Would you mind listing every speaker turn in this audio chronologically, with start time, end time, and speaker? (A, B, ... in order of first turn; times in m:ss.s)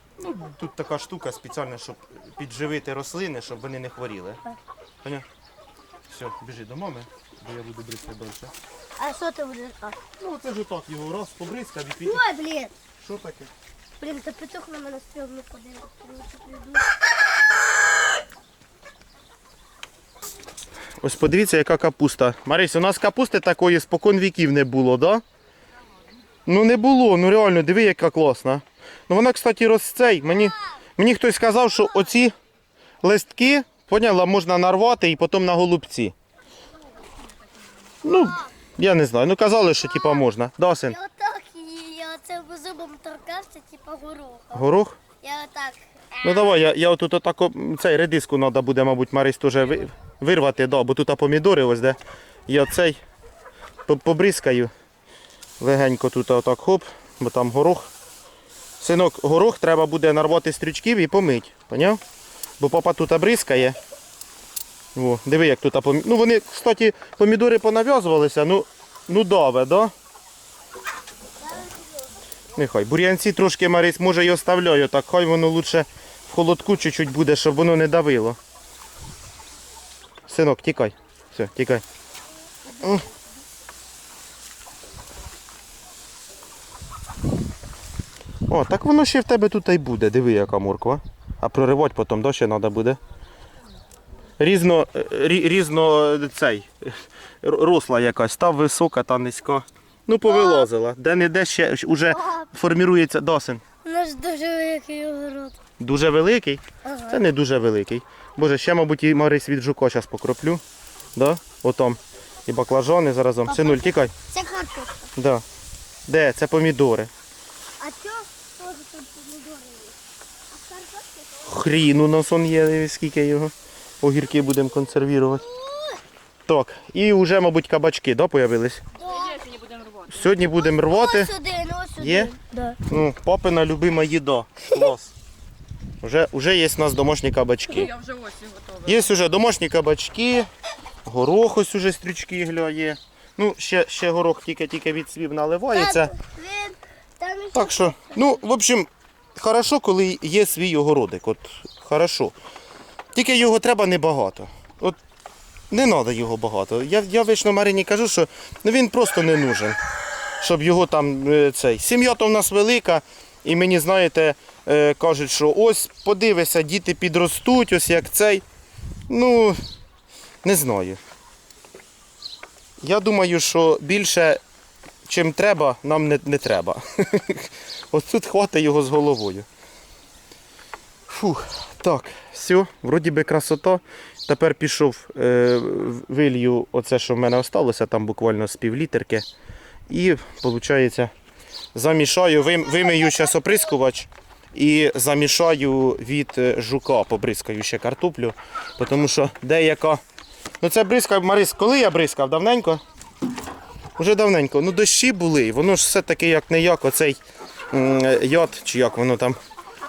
0:00.2-0:04.4 A
0:06.1-0:08.5 A
0:09.0-0:10.0 B
0:10.2-0:12.2 A
0:12.0-0:12.7 B
0:13.0-0:13.5 A
0:14.0-0:16.9 B
0:21.0-0:25.2 A
0:26.5-0:32.3 A
0:33.0-0:36.2 A
0:38.0-0:38.5 B
0:38.0-0:41.0 A
0:39.8-0:40.3 B
0:40.9-0:46.6 B
0:44.5-0:45.0 A
0:46.2-0:53.0 A
0:53.9-0:54.7 A
0:55.6-0:57.9 A
0:58.8-1:02.0 A
1:02.6-1:03.8 A
1:05.0-1:09.9 A
1:11.4-1:12.2 B
1:12.6-1:18.4 A
1:20.3-1:21.8 A
1:28.5-1:33.0 A
1:34.4-1:43.6 A
1:40.2-1:40.7 B
1:42.1-1:42.5 B
1:43.8-1:45.6 B
1:45.8-1:50.6 A
1:46.8-1:47.2 B
1:51.2-1:54.1 A
1:53.5-1:55.1 B
1:55.2-1:55.4 A
1:56.1-1:57.1 A
1:57.8-2:00.0 B
2:00.5-2:01.5 B
2:01.5-2:05.4 A
2:05.4-2:06.0 B
2:06.5-2:08.8 A
2:09.0-2:09.5 B
2:09.0-2:10.3 C
2:10.1-2:11.3 A
2:10.5-2:12.8 B
2:12.0-2:12.3 A
2:12.9-2:15.1 A
2:16.0-2:17.9 A
2:17.7-2:19.1 C
2:18.8-2:20.5 A
2:21.1-2:26.2 A
2:25.7-2:28.3 B
2:27.5-2:32.4 A
2:33.2-2:35.0 A
2:35.7-2:39.8 A
2:40.4-2:48.4 A
2:49.1-2:49.6 A
2:50.4-2:51.0 A
2:52.8-2:54.4 A
2:55.1-2:59.5 A
3:01.1-3:09.3 A
3:09.9-3:11.1 A
3:11.7-3:20.0 A
3:20.6-3:22.8 A
3:24.0-3:27.2 A
3:27.7-3:29.4 A